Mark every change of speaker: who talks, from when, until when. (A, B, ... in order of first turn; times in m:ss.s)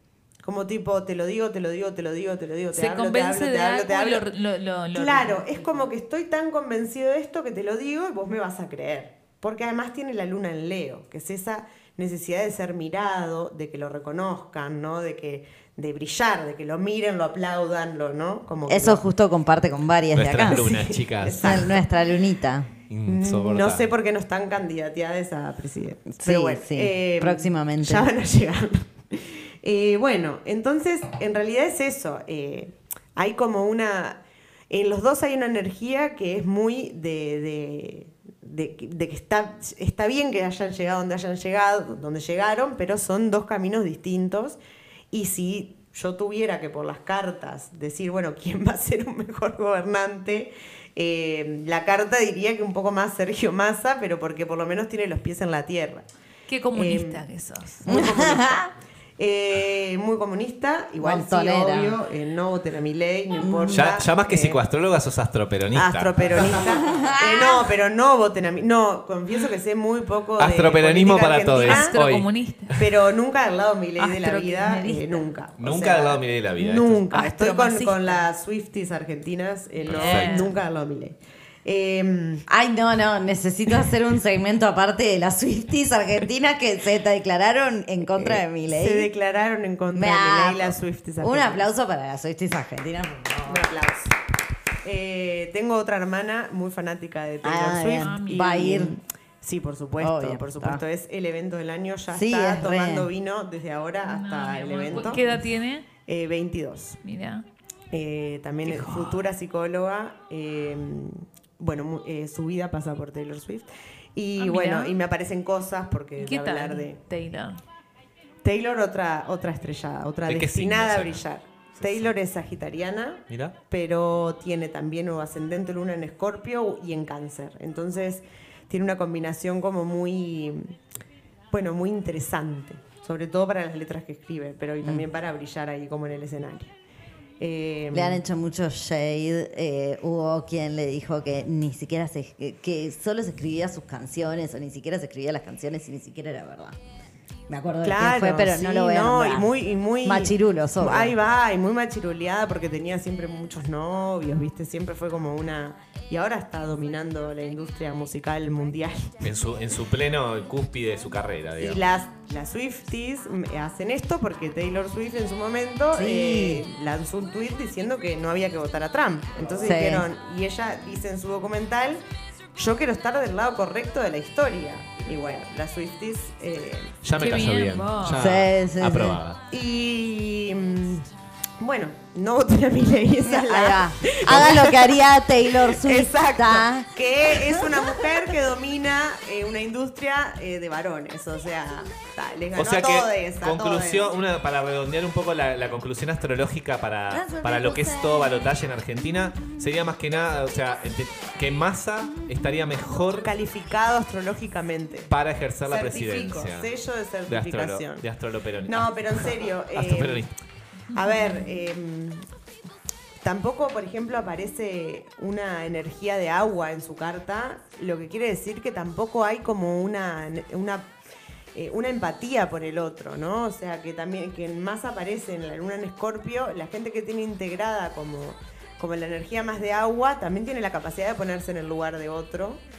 0:00.4-0:04.2 A
0:02.7-0:05.8 B
0:04.9-0:19.0 A
0:18.7-0:20.8 C
0:20.2-0:21.8 D
0:20.4-0:21.9 A
0:21.4-0:22.7 C
0:22.9-0:23.9 D
0:23.1-0:44.6 A
0:26.1-0:28.1 C
0:45.1-0:56.1 A
0:56.5-0:58.0 B
0:56.7-0:57.2 A
0:57.8-0:58.6 A
0:57.9-0:58.7 C
0:59.2-1:04.6 A
1:01.0-1:02.0 C
1:03.4-1:03.9 C
1:03.7-1:06.4 D
1:05.7-1:12.0 A
1:06.7-1:07.5 C
1:10.4-1:12.8 D
1:11.6-1:12.8 B
1:12.8-1:22.4 A
1:14.0-1:15.3 B
1:15.6-1:17.1 D
1:17.1-1:18.2 B
1:19.8-1:20.6 B
1:19.9-1:20.5 D
1:22.5-1:29.1 C
1:28.2-1:31.6 A
1:29.9-1:33.7 C
1:33.5-1:34.1 A
1:34.8-1:45.4 A
1:37.4-1:39.0 C
1:38.0-1:38.7 B
1:40.0-1:40.8 C
1:42.1-1:43.1 C
1:44.0-1:45.9 B
1:46.0-1:47.0 A
1:47.0-1:47.5 B
1:47.9-1:57.0 A
1:48.6-1:49.3 B
1:54.4-1:55.0 B
1:56.2-1:57.6 B
1:58.4-2:10.7 A
2:00.3-2:01.2 D
2:01.8-2:02.1 D
2:03.3-2:03.6 D
2:11.5-2:16.7 A
2:17.4-2:18.2 A
2:17.9-2:26.8 C
2:27.5-2:29.5 C
2:27.8-2:39.2 A
2:30.0-2:31.2 C
2:39.2-2:41.8 D
2:41.6-2:52.0 A
2:45.9-2:46.6 C
2:49.6-2:50.1 C
2:52.6-2:56.9 A
2:57.0-2:59.4 D
2:57.2-2:58.2 B
2:58.1-2:59.2 C
2:59.5-3:01.1 A
3:01.6-3:04.9 A
3:03.2-3:08.0 C
3:05.6-3:14.1 A
3:12.6-3:23.3 D
3:17.1-3:18.4 C
3:23.2-3:25.1 A
3:25.1-3:26.7 D
3:25.7-3:28.1 A
3:27.3-3:30.3 D
3:28.7-3:30.2 A
3:30.9-3:32.2 A
3:31.0-3:31.5 B
3:33.2-3:40.9 A
3:41.5-3:52.6 A